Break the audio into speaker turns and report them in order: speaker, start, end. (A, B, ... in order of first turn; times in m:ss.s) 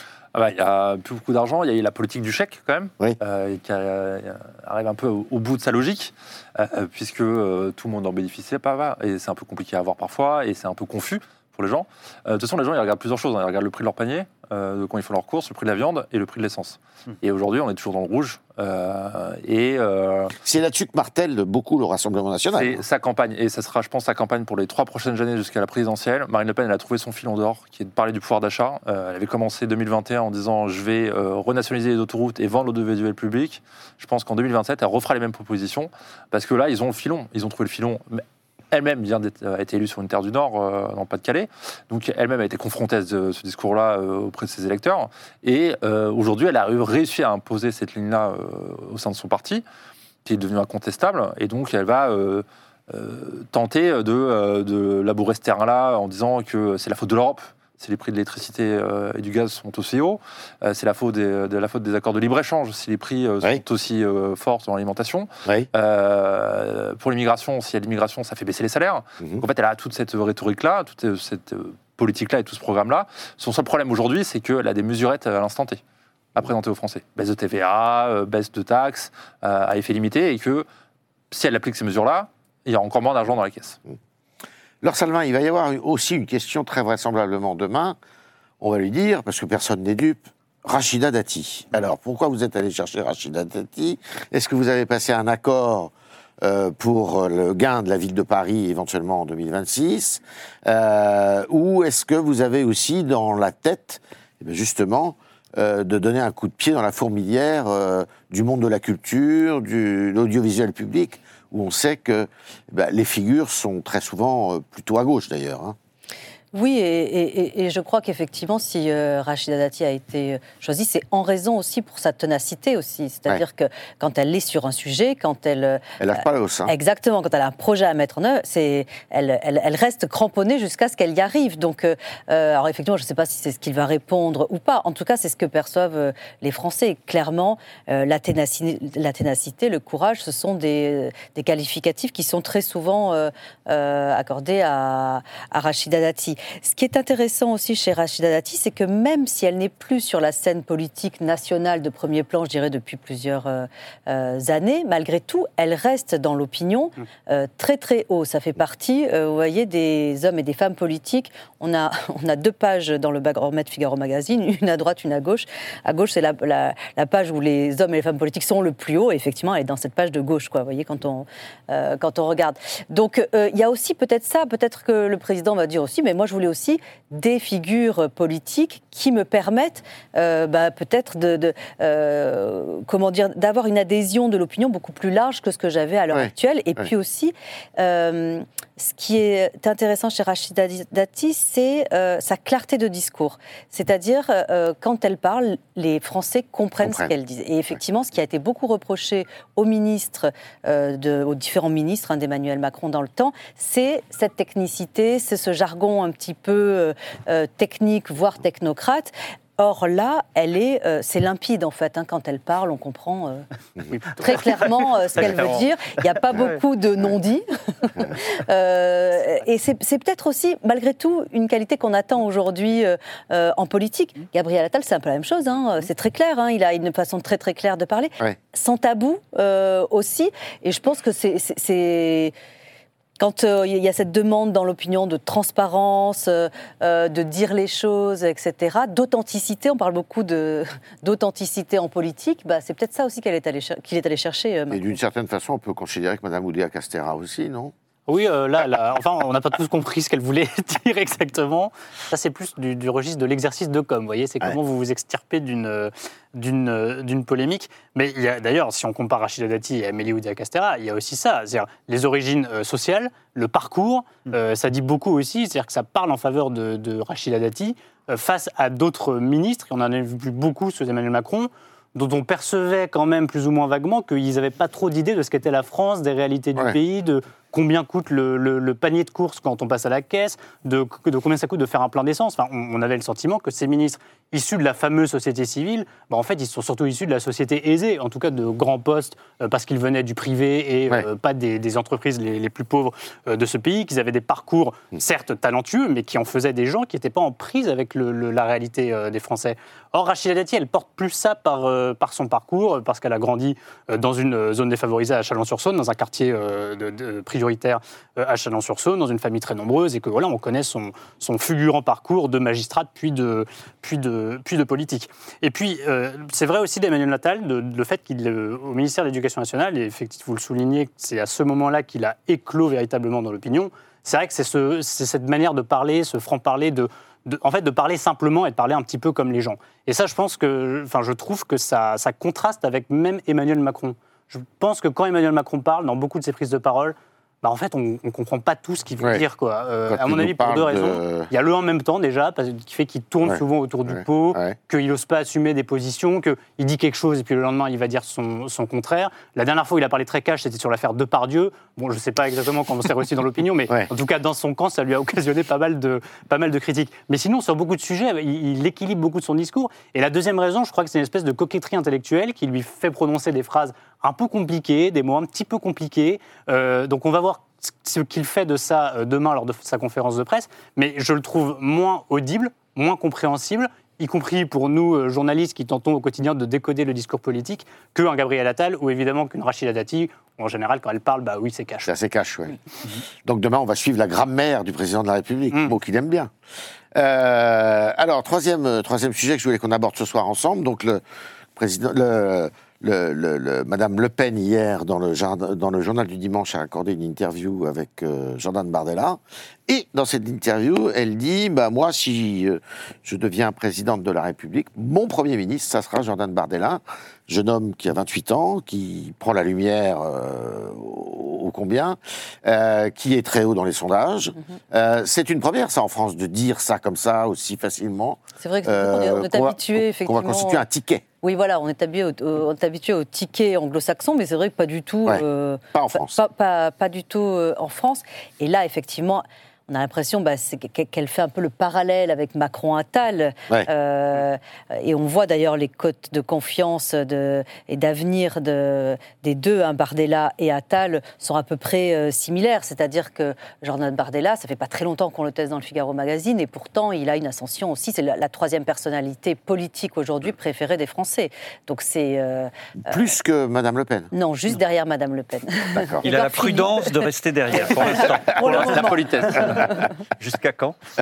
0:00.3-0:20.4 A
0:20.4-0:22.8 B
0:22.6-0:49.6 A
0:50.2-1:15.8 A
1:16.4-1:20.7 A
1:21.3-1:23.8 A
1:24.8-1:28.0 B
1:28.6-1:55.8 B
1:56.5-2:06.0 C
2:06.0-2:06.7 B
2:06.7-3:33.5 C
3:06.1-3:06.8 B
3:16.8-3:17.1 B
3:34.1-3:52.3 C
3:35.2-3:35.7 D
3:53.2-4:04.8 C
4:04.7-4:07.7 B
4:08.1-6:21.9 E
5:39.9-5:41.3 B
5:43.2-5:44.6 B
6:21.9-6:22.6 B
6:23.2-6:26.3 B
6:26.9-6:31.0 B
6:31.6-7:01.0 B
6:58.4-7:00.6 C
7:01.2-7:33.0 C
7:05.1-7:06.2 B
7:32.9-7:34.1 B
7:34.1-7:37.0 C
7:35.8-7:36.1 B
7:36.0-7:40.8 D
7:37.6-7:39.8 C
7:38.3-7:39.6 A